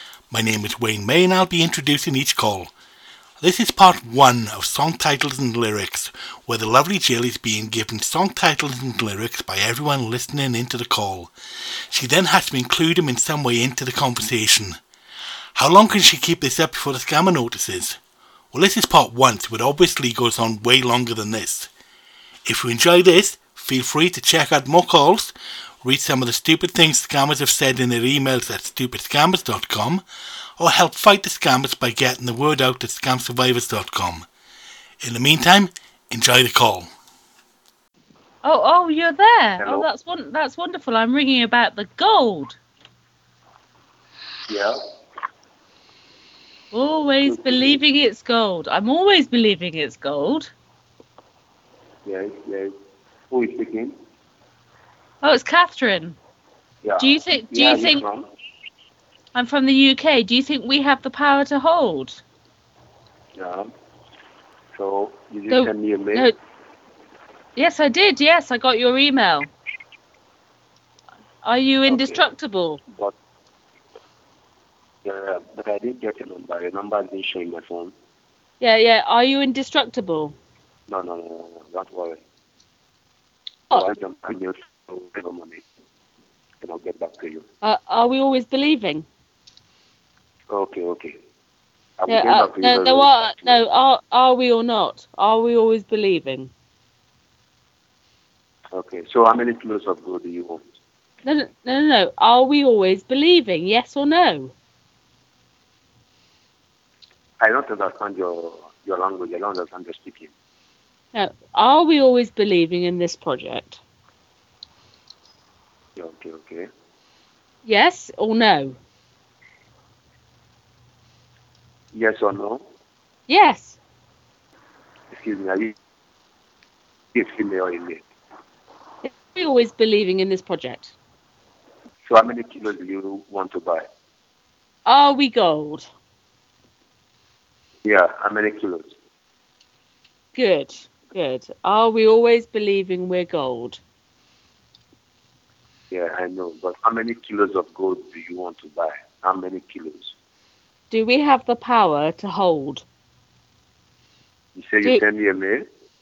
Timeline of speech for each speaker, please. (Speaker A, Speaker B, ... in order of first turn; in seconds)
Speaker A: 0.3-2.7, 3.4-11.3, 11.9-14.8, 15.6-18.0, 18.5-21.7, 22.4-30.0, 30.6-34.3, 35.0-36.9
Speaker B: 38.4-42.6, 46.7-50.5, 55.2-56.2, 57.0-58.0, 59.3-62.2, 65.5-66.3, 67.5-69.5, 71.4-72.8, 78.6-80.3, 87.6-89.1, 92.1-96.5, 101.2-104.5, 111.1-113.8, 117.6-118.8, 123.3-123.8, 129.0-130.9, 134.8-135.9, 140.3-143.8, 150.9-152.8
Speaker C: 39.6-39.9, 44.5-44.8, 47.2-47.8, 52.0-52.7, 53.3-54.0, 56.8-58.2, 63.4-63.7, 64.7-66.3, 71.8-72.2, 75.0-77.9, 80.9-82.2, 83.7-85.6, 86.6-87.4, 90.5-91.2, 92.0-93.6, 98.7-100.6, 107.4-110.3, 116.0-116.7, 121.9-122.6, 125.1-125.7, 127.1-128.0, 132.1-133.8, 137.8-138.9, 145.9-150.1, 154.5-155.6